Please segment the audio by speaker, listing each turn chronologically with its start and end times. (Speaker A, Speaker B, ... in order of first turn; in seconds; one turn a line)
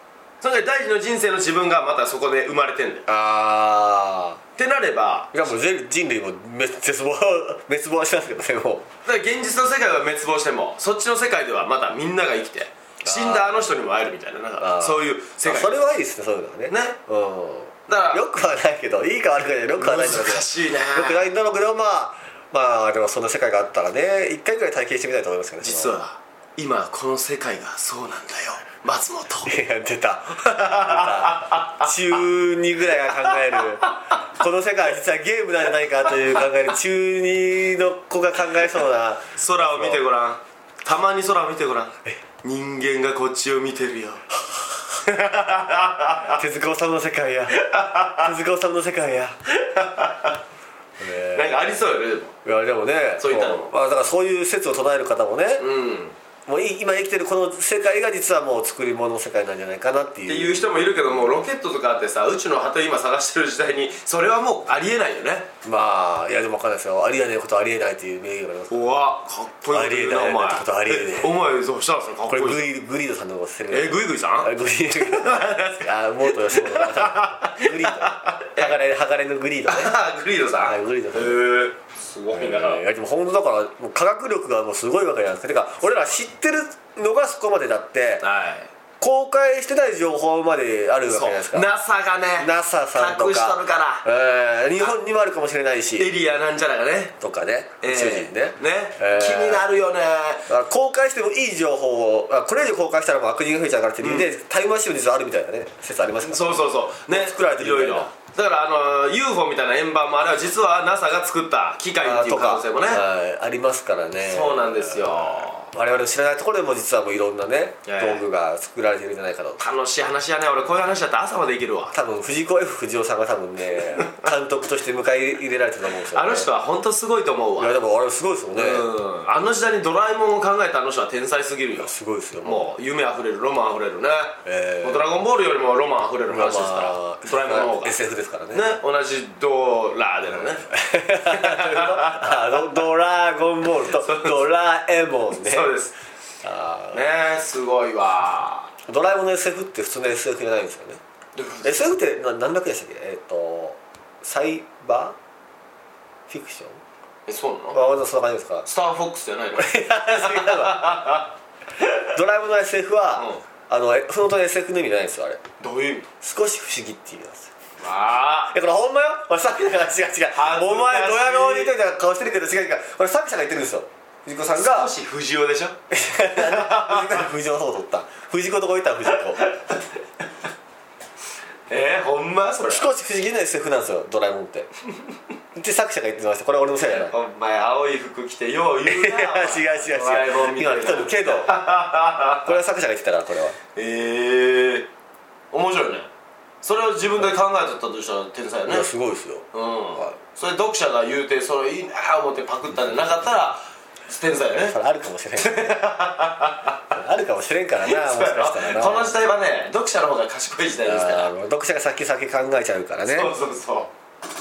Speaker A: 0.4-3.0
Speaker B: 3.1-4.4
Speaker A: 4.6-5.4
Speaker B: 5.3-8.9
Speaker A: 9.1-15.8
Speaker B: 13.0-13.8
Speaker B: 14.6-26.0
Speaker A: 16.7-17.0
Speaker A: 17.9-18.2
Speaker A: 19.8-21.3
Speaker A: 25.6-29.6
Speaker B: 29.4-40.0
Speaker A: 30.4-31.9
Speaker A: 33.3-33.9
Speaker A: 39.4-44.2
Speaker A: 45.0-46.4
Speaker B: 46.3-49.4
Speaker A: 47.5-48.3
Speaker A: 49.5-50.4
Speaker B: 51.0-51.6
Speaker A: 51.3-52.4
Speaker B: 52.4-55.7
Speaker A: 53.2-53.7
Speaker A: 55.6-56.1
Speaker B: 56.5-61.4
Speaker A: 60.3-65.5
Speaker B: 65.6-68.9
Speaker A: 68.7-72.7
Speaker B: 69.7-71.3
Speaker B: 72.3-79.9
Speaker A: 73.7-78.8
Speaker A: 79.7-82.8
Speaker B: 80.6-81.4
Speaker B: 82.3-88.2
Speaker A: 88.2-88.7
Speaker B: 89.0-91.7
Speaker A: 91.0-94.0
Speaker B: 92.4-96.1
Speaker A: 96.0-97.2
Speaker B: 97.2-99.7
Speaker A: 97.8-100.5
Speaker B: 100.5-108.1
Speaker A: 104.0-104.3
Speaker A: 106.2-113.0
Speaker B: 112.0-119.6
Speaker A: 114.2-115.7
Speaker A: 117.8-118.2
Speaker A: 119.6-121.9
Speaker B: 121.9-126.5
Speaker A: 126.1-127.8
Speaker B: 127.6-128.8
Speaker A: 128.5-131.9
Speaker B: 131.8-132.7
Speaker A: 132.4-138.0
Speaker B: 134.4-135.1
Speaker B: 136.3-138.6
Speaker A: 138.5-142.7
Speaker B: 140.4-145.7
Speaker A: 143.9-144.4
Speaker A: 145.4-145.9
Speaker B: 146.4-147.1
Speaker A: 146.9-148.7
Speaker B: 148.8-151.0
Speaker A: 151.3-151.9
Speaker B: 151.6-155.2
Speaker B: 156.3-156.8
Speaker A: 157.3-157.8
Speaker B: 157.7-158.7
Speaker A: 158.6-161.3
Speaker B: 159.6-161.2
Speaker B: 162.1-165.4
Speaker A: 163.2-163.4
Speaker A: 165.6-166.1
Speaker B: 166.2-167.5
Speaker A: 167.8-168.5
Speaker B: 168.5-174.9
Speaker A: 170.3-171.7
Speaker A: 174.5-175.8
Speaker B: 175.9-179.4
Speaker A: 176.3-177.2
Speaker A: 179.4-179.8
Speaker A: 181.7-182.9
Speaker B: 182.7-184.7
Speaker B: 185.5-187.1
Speaker A: 187.0-192.6
Speaker B: 188.8-191.5
Speaker B: 192.4-193.6
Speaker A: 193.7-194.9
Speaker A: 195.5-196.1
Speaker A: 196.6-198.9
Speaker B: 198.7-200.2
Speaker A: 199.5-204.8
Speaker B: 202.7-203.5
Speaker B: 204.5-205.9
Speaker A: 205.4-206.9
Speaker B: 206.9-209.2
Speaker A: 207.8-211.3
Speaker B: 210.8-213.3
Speaker A: 213.1-213.9